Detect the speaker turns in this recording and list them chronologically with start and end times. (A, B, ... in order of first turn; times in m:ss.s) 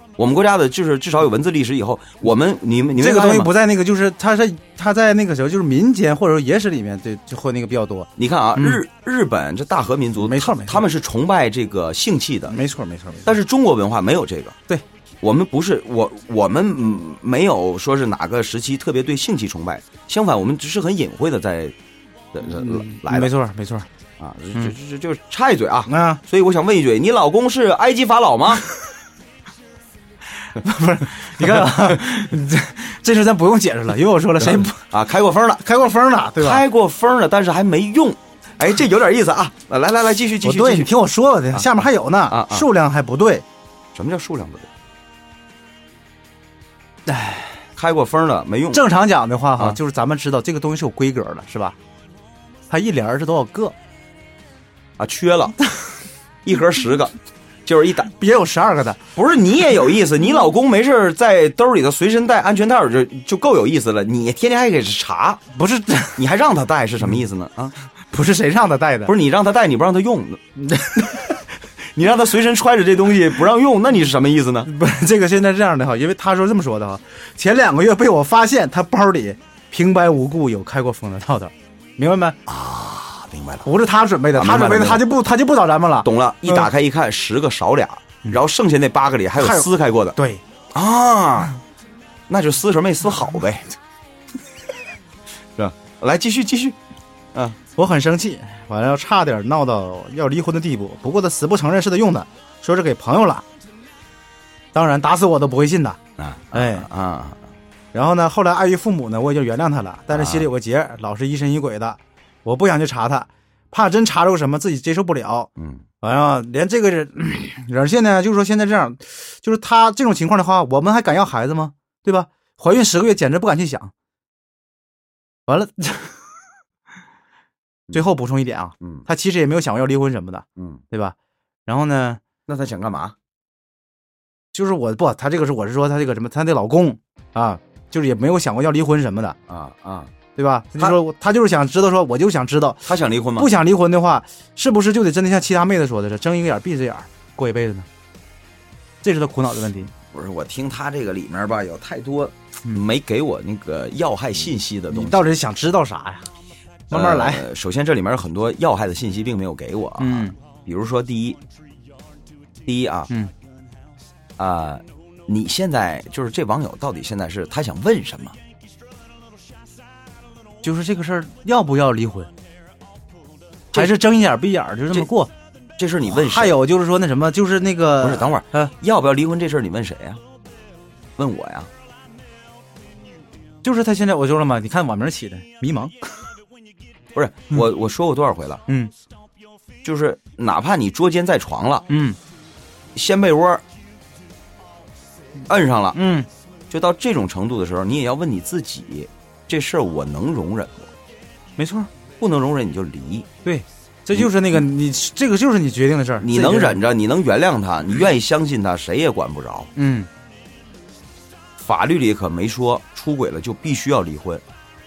0:00.2-0:03.5 A
0:03.0-0:08.8 B
0:08.2-0:12.6 A
0:10.2-0:10.8 B
0:12.5-0:13.3 B
0:13.2-0:14.6 A
0:15.2-0:21.8 A
0:22.3-0:23.3 A
0:22.4-0:23.9 B
0:24.2-0:28.6 A
0:25.9-0:26.2 B
0:30.4-0:34.8 B
0:34.4-0:35.6 A
0:35.6-0:36.6 B
0:36.4-0:40.9 A
0:40.4-0:43.4 B
0:42.3-0:42.6 A
0:43.9-0:44.7 A
0:47.1-0:47.6 B
0:47.8-0:48.8 A
0:48.7-0:51.8 B
0:52.7-0:53.7 B
0:55.0-0:55.6 A
0:56.4-0:57.1 A
0:57.6-0:58.1 A
0:58.1-0:59.0 B
0:59.2-1:05.4 A
1:05.5-1:06.2 B
1:06.2-1:07.7 A
1:08.1-1:09.1 B
1:09.1-1:10.4 A
1:10.6-1:11.3 B
1:11.8-1:14.7 A
1:14.6-1:22.4 B
1:22.5-1:23.7 A
1:23.6-1:26.6 B
1:24.3-1:25.1 A
1:26.0-1:30.2 A
1:29.4-1:30.4 B
1:30.7-1:31.6 A
1:32.3-1:33.7 A
1:35.6-1:36.8 A
1:37.8-1:43.4 B
1:44.7-1:46.0 B
1:46.2-1:47.5 A
1:46.5-1:46.9 B
1:47.9-1:55.5 B
1:50.1-1:50.5 A
1:55.6-1:55.8 A
1:56.0-2:03.9 B
2:05.5-2:06.2 B
2:07.9-2:11.2 B
2:11.7-2:12.2 B
2:12.5-2:13.2 A
2:14.5-2:19.4 B
2:19.5-2:20.1 A
2:20.3-2:27.9 B
2:22.8-2:23.5 A
2:29.0-2:29.9 B
2:30.1-2:35.2 A
2:34.9-2:36.3 B
2:36.9-2:37.4 B
2:36.9-2:41.4 A
2:40.0-2:40.4 B
2:42.6-2:43.1 A
2:44.4-2:48.4 A
2:50.6-2:52.3 B
2:53.7-2:55.3 B
2:55.8-2:56.6 A
2:56.1-2:58.7 B
2:58.0-3:00.2 A
3:01.2-3:01.7 A
3:03.6-3:05.9 B
3:07.1-3:08.6 A
3:09.8-3:11.9 A
3:11.9-3:12.2 B
3:12.9-3:13.6 A
3:15.5-3:16.0 A
3:15.9-3:16.3 B
3:16.7-3:20.9 A
3:21.6-3:21.9 B
3:22.2-3:23.3 A
3:23.4-3:26.8 B
3:24.1-3:24.6 A
3:26.2-3:29.7 A
3:29.8-3:30.1 B
3:31.6-3:34.4 A